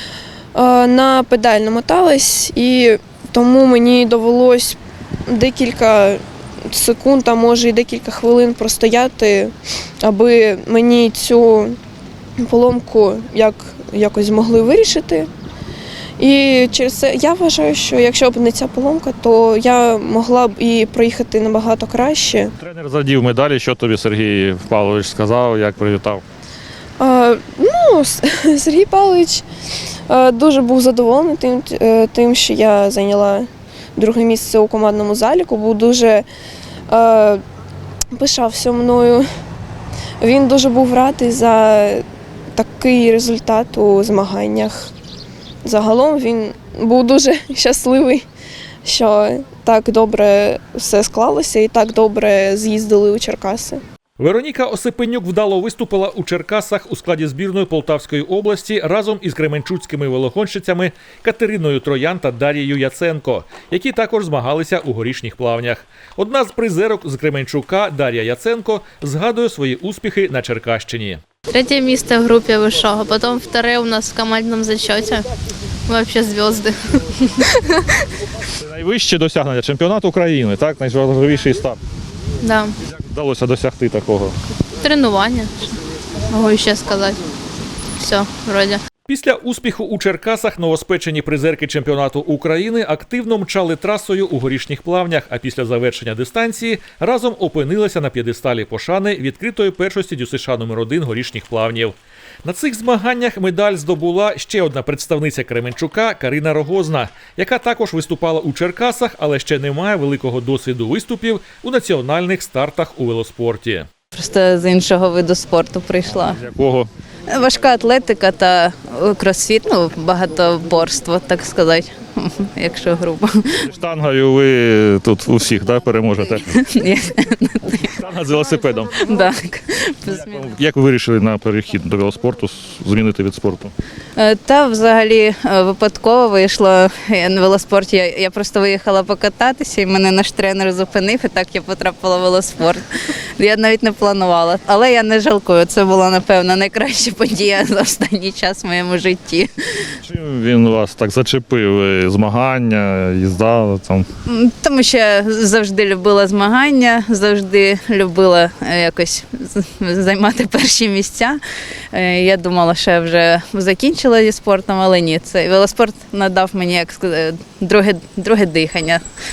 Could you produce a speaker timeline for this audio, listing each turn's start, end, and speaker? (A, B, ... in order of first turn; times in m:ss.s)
0:00.6-0:11.8 A
0:12.4-0:15.3 A
0:16.2-0:22.5 A
0:22.6-0:26.2 B
0:27.0-0:29.4 A
0:30.1-0:36.3 A
0:36.9-0:37.4 A
0:38.1-0:39.3 A
0:40.2-0:44.9 A
0:45.6-0:48.2 A
0:48.8-0:53.8 A
0:54.2-1:11.2 C
1:11.5-1:15.3 D
1:15.9-1:16.8 D
1:17.4-1:17.9 D
1:18.6-1:21.8 B
1:22.4-1:22.7 D
1:23.0-1:24.4 B
1:24.8-1:25.7 D
1:26.3-1:27.2 D
1:28.0-1:28.8 D
1:29.1-1:53.9 C
1:54.1-1:56.4 E
1:56.2-1:56.9 B
1:57.3-2:03.6 E
2:03.6-2:06.6 B
2:06.6-2:07.9 E
2:07.8-2:09.2 B
2:09.0-2:10.5 E
2:10.1-2:13.7 B
2:14.2-2:22.9 E
2:23.4-2:29.9 E
2:30.0-2:34.1 B
2:34.3-2:41.4 E
2:41.9-2:49.0 E